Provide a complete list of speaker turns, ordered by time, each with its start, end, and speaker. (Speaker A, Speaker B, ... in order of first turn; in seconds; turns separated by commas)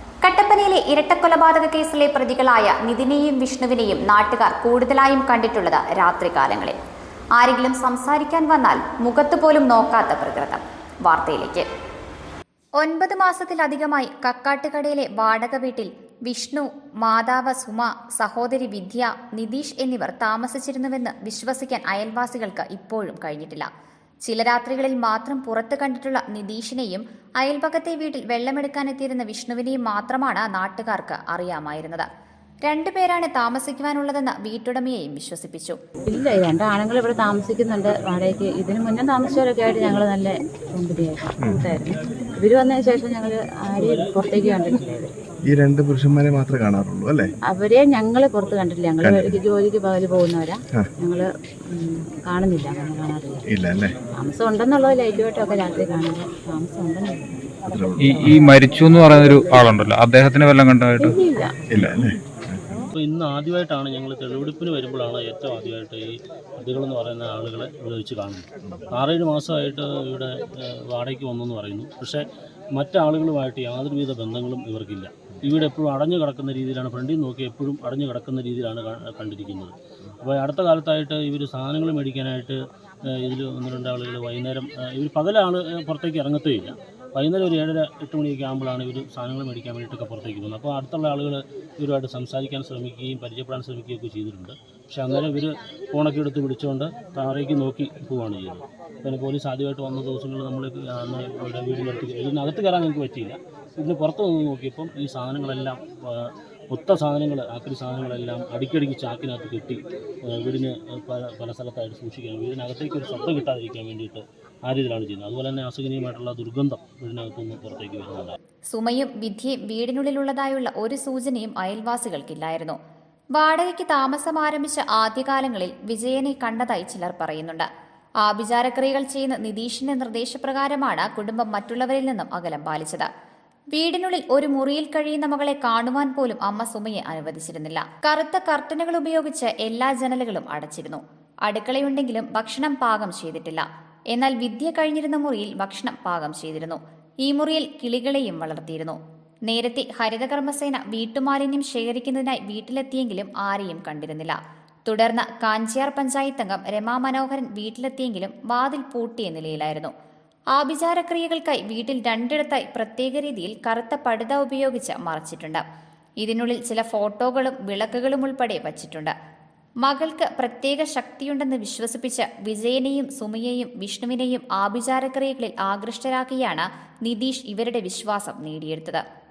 Speaker A: 0.2-6.8, Speaker A: 7.4-11.7, Speaker A: 12.8-23.7, Speaker A: 24.3-32.1, Speaker A: 32.7-35.8, Speaker B: 36.1-45.1, Speaker C: 45.5-47.3, Speaker B: 47.5-53.5, Speaker C: 49.0-49.4, Speaker C: 53.5-53.9, Speaker B: 54.2-58.4, Speaker C: 57.7-58.2, Speaker D: 58.0-61.2, Speaker B: 61.0-61.6, Speaker C: 61.7-62.9, Speaker E: 62.9-72.2, Speaker E: 72.8-82.6, Speaker E: 83.1-118.4, Speaker A: 118.7-122.8, Speaker A: 123.4-127.7, Speaker A: 128.2-133.1, Speaker A: 133.7-159.9, Speaker A: 160.6-165.6, Speaker A: 166.2-169.1, Speaker A: 169.8-179.0